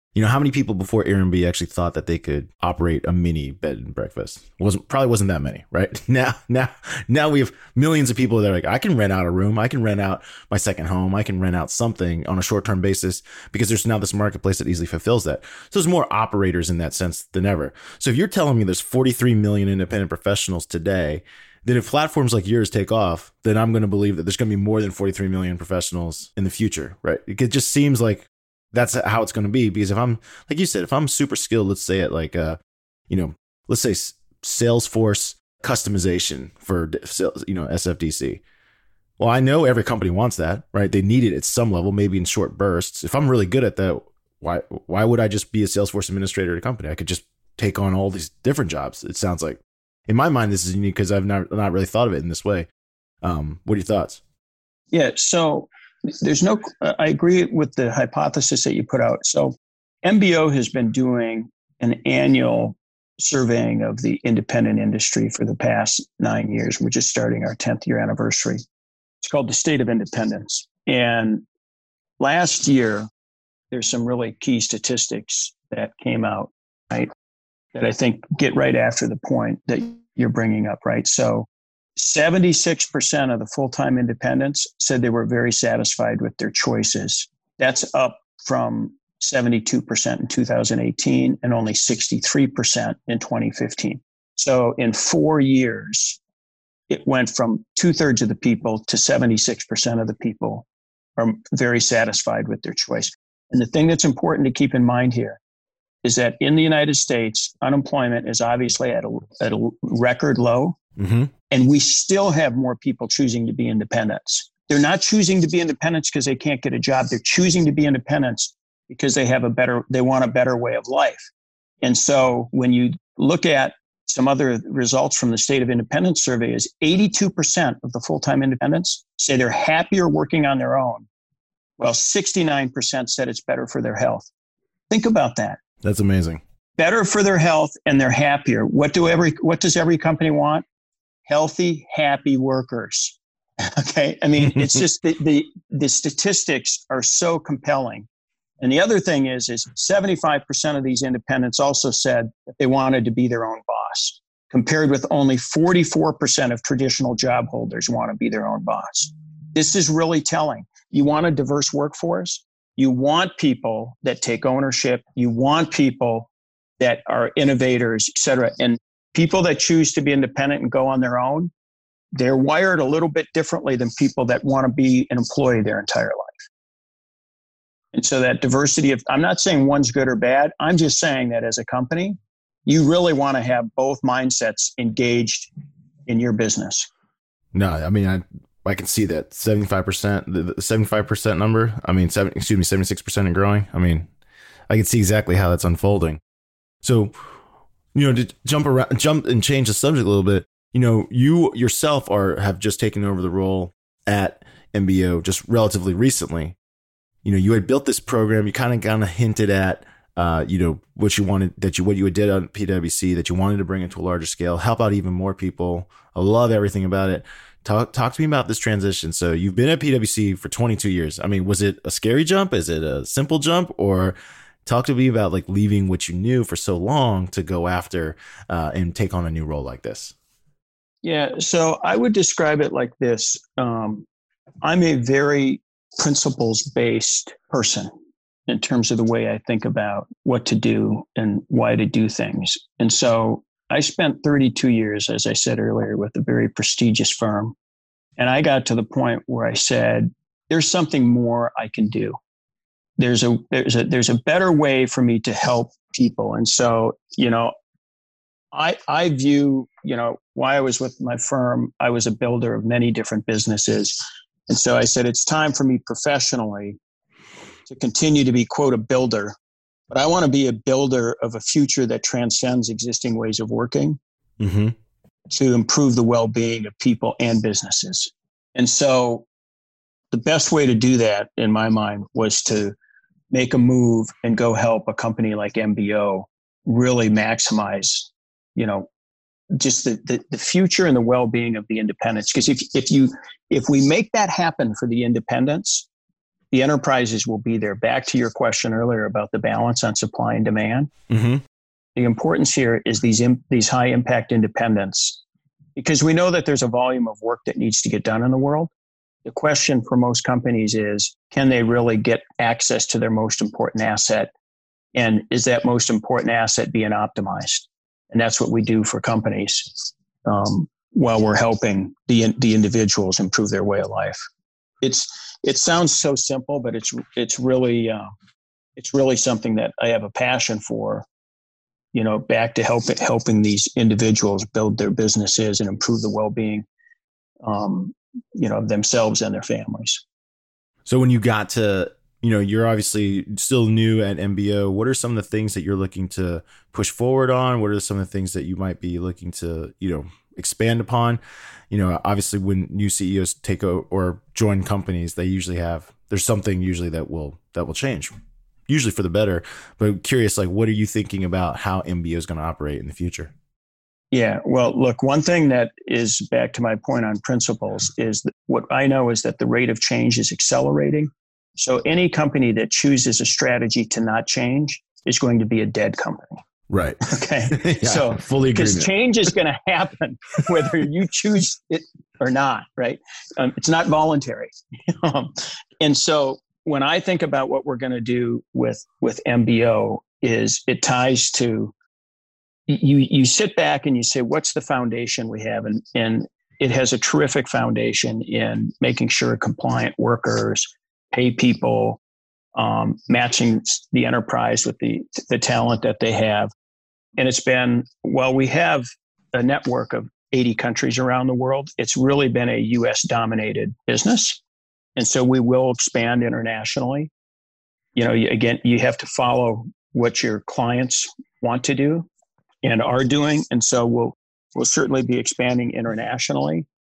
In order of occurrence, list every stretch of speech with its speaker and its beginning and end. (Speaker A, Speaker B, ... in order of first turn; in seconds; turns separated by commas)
Speaker A: 0.1-32.6, Speaker A: 33.1-38.4, Speaker A: 39.2-52.7, Speaker A: 53.2-54.2, Speaker B: 54.9-68.6, Speaker B: 69.2-71.4, Speaker B: 72.2-73.1, Speaker B: 73.7-77.1, Speaker B: 77.7-96.2, Speaker B: 96.9-100.7, Speaker B: 101.2-105.4, Speaker B: 106.0-110.8, Speaker A: 111.0-111.3, Speaker B: 111.5-121.3, Speaker B: 121.8-131.1, Speaker B: 131.8-134.3, Speaker B: 134.9-135.6, Speaker A: 135.8-136.4, Speaker B: 136.8-140.6, Speaker B: 141.3-148.1, Speaker B: 148.6-171.5, Speaker B: 172.2-176.3, Speaker B: 177.9-185.5, Speaker B: 186.1-186.9, Speaker A: 187.5-194.1, Speaker A: 194.7-196.2, Speaker A: 196.8-197.1, Speaker A: 197.9-206.5, Speaker A: 207.2-230.1, Speaker B: 231.0-234.0, Speaker B: 234.6-237.9, Speaker B: 238.5-247.5, Speaker B: 248.2-252.2, Speaker B: 253.0-257.5, Speaker B: 258.5-266.8, Speaker B: 267.7-269.3, Speaker B: 269.9-274.0, Speaker A: 274.4-274.7, Speaker B: 275.3-279.2, Speaker B: 280.1-282.7, Speaker B: 283.3-288.9, Speaker B: 289.5-295.9, Speaker B: 296.5-300.9, Speaker A: 301.1-301.4, Speaker B: 301.9-305.2, Speaker B: 305.8-308.7, Speaker B: 309.2-314.3, Speaker B: 314.9-324.2, Speaker B: 324.8-328.1, Speaker B: 328.8-331.1, Speaker B: 331.9-336.6, Speaker B: 337.4-340.0, Speaker A: 340.9-351.2, Speaker A: 351.7-358.1, Speaker A: 358.7-363.3, Speaker B: 364.1-376.4, Speaker A: 376.7-378.9, Speaker B: 377.1-391.7, Speaker B: 392.7-402.0, Speaker B: 402.6-406.5, Speaker B: 407.2-414.4, Speaker B: 415.0-417.1, Speaker B: 417.9-422.1, Speaker B: 422.6-426.6